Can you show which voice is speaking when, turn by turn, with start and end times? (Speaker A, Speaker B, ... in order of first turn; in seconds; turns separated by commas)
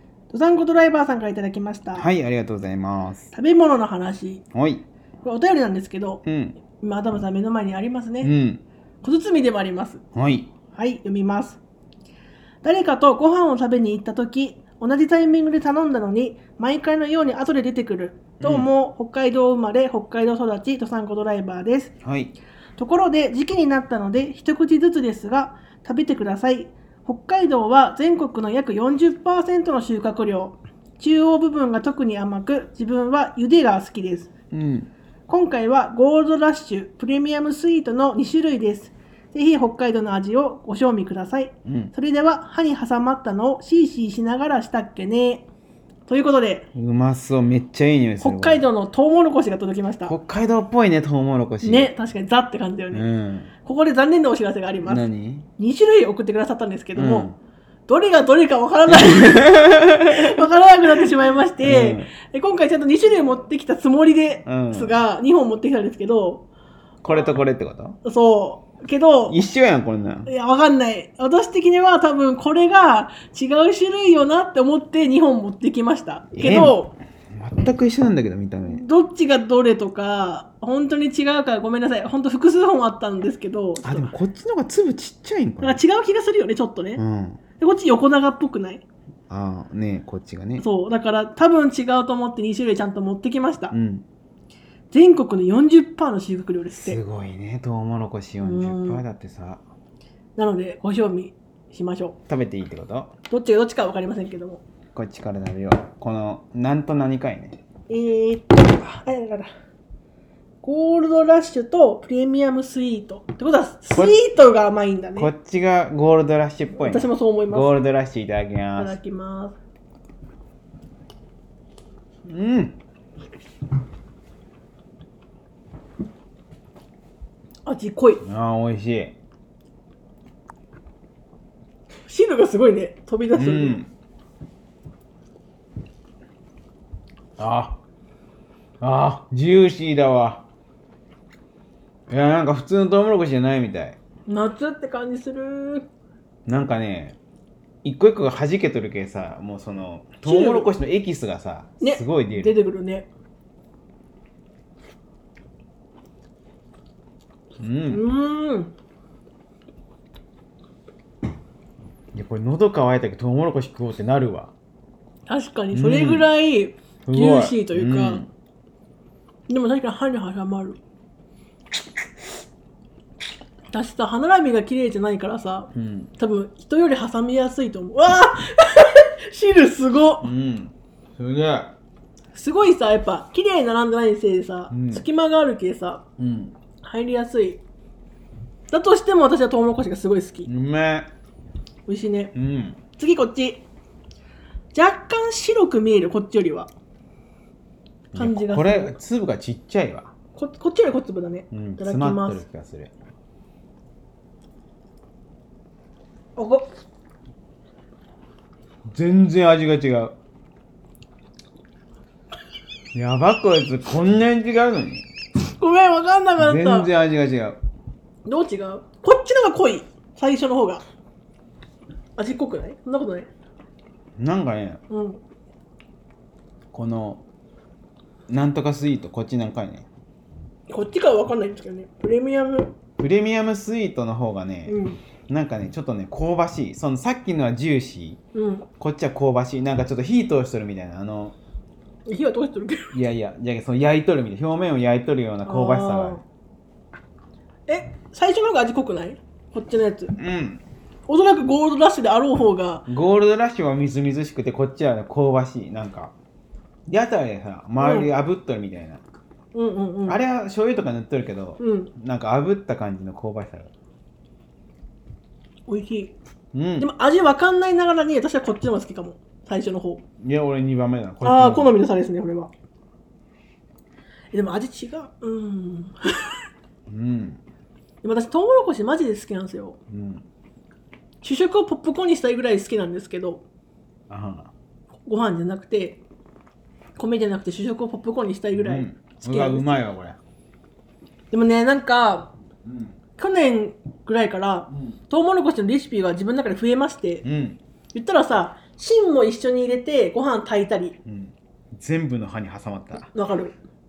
Speaker A: 0.3-2.1, Speaker B: 1.9-3.3, Speaker A: 3.3-4.4, Speaker B: 4.5-4.8, Speaker A: 5.2-8.3, Speaker B: 6.2-6.6, Speaker B: 8.2-8.6, Speaker A: 9.0-10.0, Speaker B: 10.1-10.5, Speaker A: 10.7-11.6, Speaker A: 12.6-21.9, Speaker B: 18.4-18.7, Speaker B: 22.0-22.3, Speaker A: 22.8-34.3, Speaker B: 34.5-34.9, Speaker A: 35.3-45.5, Speaker B: 41.6-41.9, Speaker A: 46.1-46.7, Speaker B: 46.7-48.6, Speaker A: 48.2-50.1, Speaker B: 50.0-51.9, Speaker A: 51.6-53.1, Speaker B: 52.9-53.5, Speaker A: 53.6-55.0, Speaker B: 54.9-55.5, Speaker A: 55.6-57.3, Speaker B: 57.0-57.4, Speaker A: 57.9-66.5, Speaker B: 58.9-60.4, Speaker B: 61.6-62.1, Speaker B: 64.5-64.9, Speaker B: 67.0-68.0, Speaker A: 68.0-69.3, Speaker B: 69.3-70.3, Speaker A: 70.3-76.9, Speaker B: 76.3-76.8, Speaker B: 77.3-78.8, Speaker A: 78.7-84.1, Speaker B: 83.8-85.8, Speaker A: 85.6-87.0, Speaker B: 87.0-87.4, Speaker A: 87.6-88.8, Speaker B: 89.3-90.6, Speaker A: 90.6-93.7, Speaker B: 93.7-94.0, Speaker A: 94.9-97.0, Speaker B: 96.8-99.6, Speaker A: 98.4-99.0, Speaker A: 100.3-102.2, Speaker B: 102.3-103.1, Speaker A: 103.3-104.6, Speaker B: 104.9-107.6, Speaker A: 107.9-109.5, Speaker A: 110.6-115.3, Speaker B: 115.2-119.0, Speaker A: 116.8-117.7, Speaker A: 118.8-119.6, Speaker B: 122.2-122.8, Speaker A: 127.6-128.2, Speaker B: 128.2-129.1, Speaker A: 132.1-133.8, Speaker B: 133.3-133.9, Speaker B: 137.4-137.8, Speaker B: 138.8-140.4, Speaker B: 142.1-144.0, Speaker A: 144.3-145.8, Speaker B: 146.5-147.2, Speaker B: 147.8-152.6, Speaker A: 150.2-150.7, Speaker A: 151.8-153.1, Speaker B: 157.6-158.0, Speaker A: 157.9-158.7, Speaker B: 162.1-164.5, Speaker A: 165.3-168.2, Speaker B: 165.7-166.3, Speaker B: 167.0-168.3, Speaker A: 169.5-170.8, Speaker A: 173.7-180.3, Speaker B: 175.7-176.1, Speaker B: 180.2-181.8, Speaker A: 182.3-186.0, Speaker B: 184.7-185.0, Speaker B: 186.2-186.5, Speaker A: 186.8-187.6, Speaker A: 188.7-190.5, Speaker B: 190.4-191.1, Speaker A: 191.9-192.3, Speaker B: 192.3-192.8, Speaker A: 193.0-193.6, Speaker A: 194.7-196.7, Speaker A: 198.1-198.9, Speaker B: 198.1-200.1, Speaker A: 200.3-202.4, Speaker B: 201.5-202.9, Speaker A: 206.4-206.7, Speaker B: 208.9-210.1, Speaker B: 212.9-215.0, Speaker A: 215.4-216.9, Speaker B: 216.4-217.6, Speaker A: 218.2-220.8, Speaker A: 222.2-223.3, Speaker B: 224.2-224.8, Speaker A: 224.9-225.2, Speaker B: 226.7-227.2, Speaker B: 228.3-229.9, Speaker A: 230.7-232.7, Speaker B: 233.0-234.8, Speaker A: 234.7-235.0, Speaker B: 235.3-238.2, Speaker A: 238.3-238.7, Speaker B: 238.8-241.3, Speaker A: 242.1-243.0, Speaker B: 242.9-246.2, Speaker A: 245.4-246.2, Speaker A: 247.7-250.1, Speaker B: 250.2-250.6, Speaker A: 251.1-252.8, Speaker B: 252.9-256.1, Speaker B: 256.9-259.0, Speaker A: 257.8-258.1, Speaker A: 259.5-260.2, Speaker B: 260.1-263.7, Speaker A: 261.6-261.9, Speaker A: 265.7-266.1, Speaker B: 266.5-266.9, Speaker A: 266.8-270.0, Speaker B: 270.2-271.8, Speaker A: 271.2-272.5, Speaker A: 274.3-276.4, Speaker B: 276.9-277.4, Speaker A: 278.0-279.8, Speaker B: 279.9-280.2, Speaker A: 281.2-283.4, Speaker B: 284.1-284.5, Speaker A: 285.1-286.0, Speaker A: 287.0-289.9, Speaker B: 288.5-290.2, Speaker A: 291.3-292.3, Speaker B: 292.6-293.0, Speaker A: 293.1-297.2, Speaker B: 294.7-295.0, Speaker B: 297.2-297.6, Speaker A: 297.9-301.0, Speaker B: 301.1-303.1, Speaker A: 303.1-303.5